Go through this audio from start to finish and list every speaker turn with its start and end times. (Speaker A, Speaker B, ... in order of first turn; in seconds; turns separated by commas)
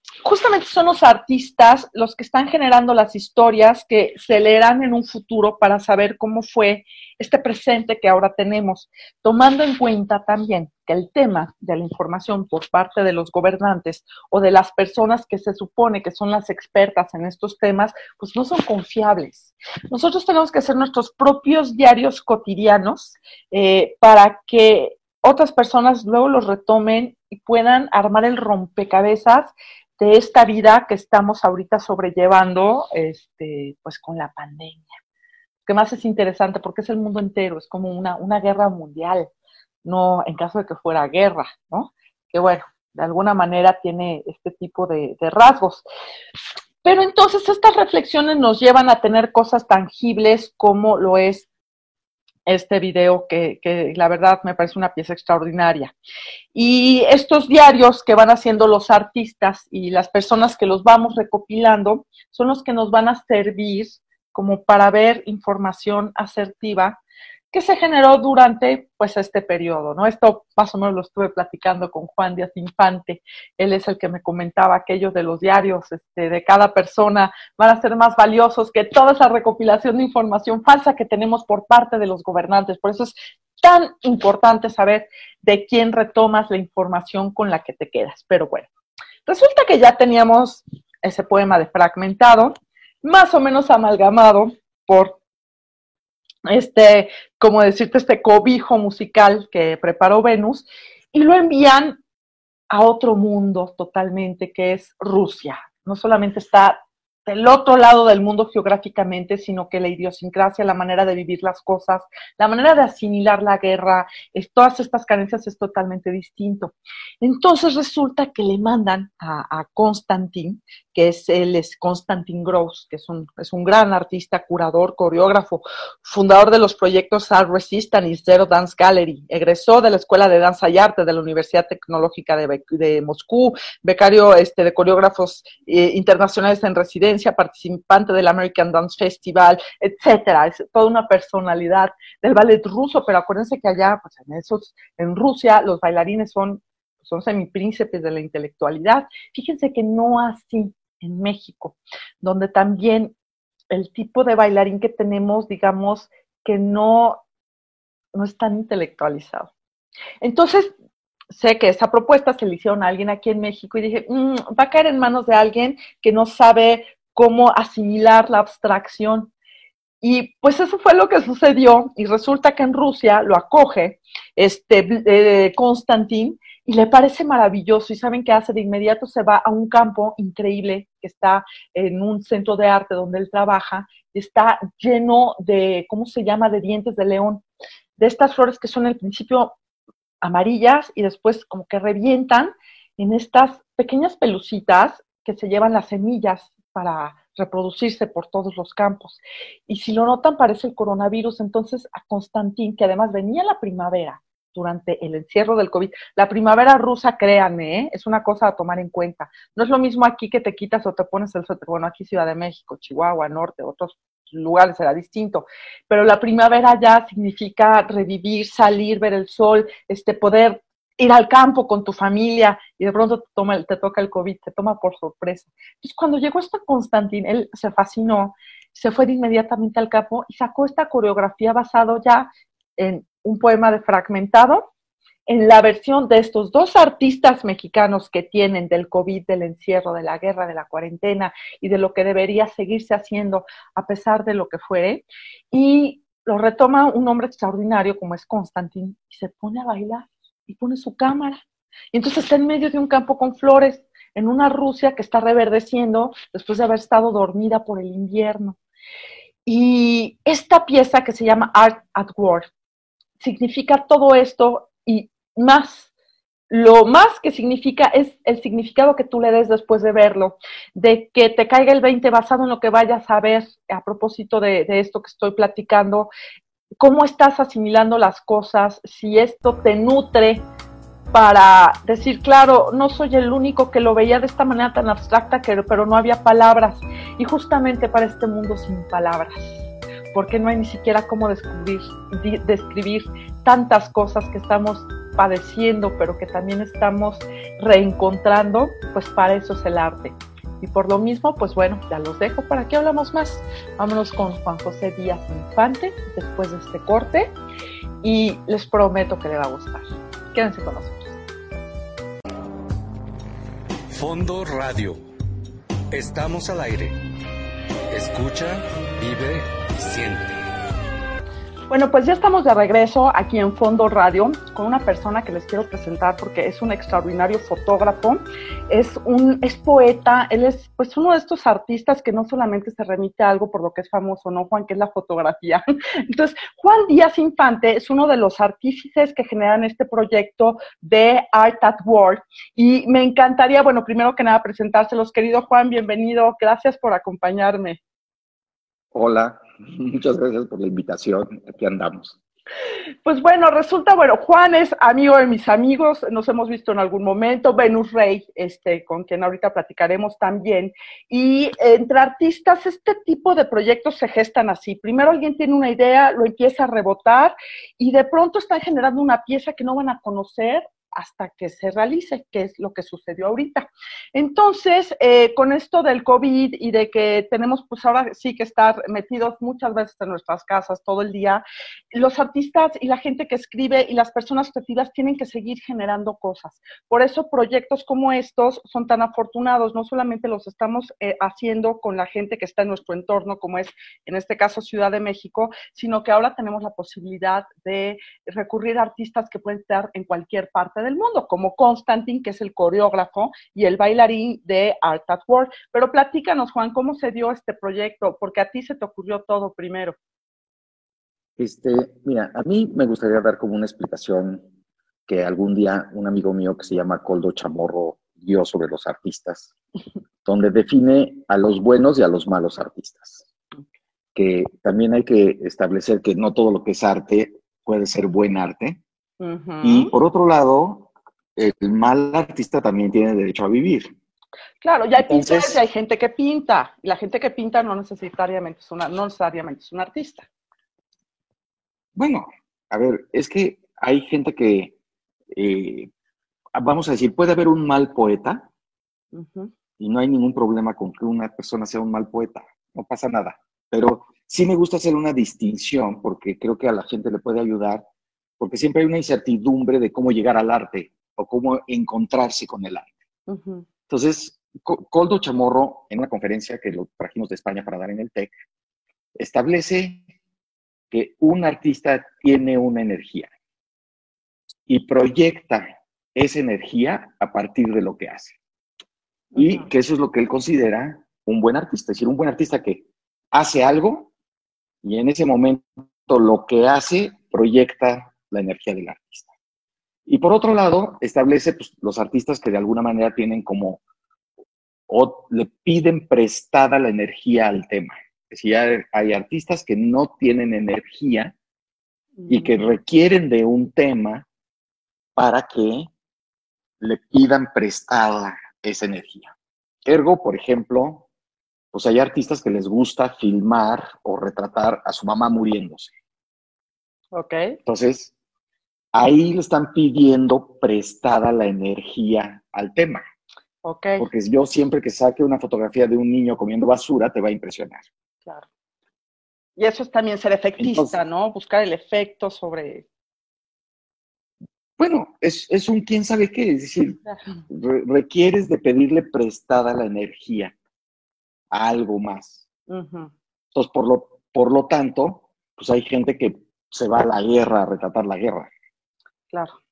Speaker A: 0.2-34.9, Speaker A: 35.7-39.3, Speaker A: 39.9-45.9, Speaker A: 46.8-51.5, Speaker A: 52.5-55.9, Speaker A: 56.5-67.0, Speaker A: 67.5-88.7, Speaker A: 89.3-95.2, Speaker A: 96.5-102.0, Speaker A: 102.7-153.2, Speaker A: 153.7-157.2, Speaker A: 158.1-159.5, Speaker A: 160.2-160.7, Speaker A: 161.3-169.3, Speaker A: 170.0-187.4, Speaker A: 188.0-189.6, Speaker A: 190.2-234.7, Speaker A: 235.3-251.4, Speaker A: 251.9-258.6, Speaker A: 259.5-262.5, Speaker A: 263.2-265.9, Speaker A: 266.5-276.1, Speaker A: 276.8-280.4, Speaker A: 281.1-307.4, Speaker A: 308.0-311.2, Speaker B: 313.9-315.0, Speaker B: 315.9-317.0, Speaker B: 317.9-320.5, Speaker A: 321.7-347.8, Speaker C: 348.9-352.2, Speaker A: 353.1-410.0, Speaker C: 411.4-414.5, Speaker C: 415.1-419.5, Speaker C: 420.2-423.2, Speaker C: 424.1-428.8, Speaker A: 429.2-429.9, Speaker C: 429.6-433.9, Speaker A: 434.6-440.3, Speaker C: 435.0-435.6, Speaker C: 441.9-444.8, Speaker C: 445.3-445.9, Speaker C: 446.6-448.5, Speaker A: 449.1-449.5, Speaker C: 449.8-457.9, Speaker C: 458.4-462.9, Speaker A: 463.3-463.6, Speaker C: 463.9-468.3, Speaker C: 469.2-470.0, Speaker C: 470.9-473.3, Speaker C: 474.7-478.4, Speaker A: 479.3-479.7, Speaker C: 479.4-484.1, Speaker C: 484.8-489.3, Speaker C: 490.1-493.8, Speaker C: 494.9-501.4, Speaker A: 502.2-502.6, Speaker C: 502.3-504.3, Speaker C: 505.2-505.9, Speaker C: 506.8-509.3, Speaker C: 509.9-511.1, Speaker C: 511.7-515.9, Speaker A: 517.1-517.6, Speaker C: 517.7-518.1, Speaker C: 518.9-523.0, Speaker A: 523.6-524.1, Speaker C: 524.0-527.9, Speaker A: 529.6-532.9, Speaker C: 530.6-531.0, Speaker C: 534.8-540.5, Speaker C: 541.5-542.4, Speaker A: 542.7-543.1, Speaker C: 543.5-548.5, Speaker A: 549.3-549.6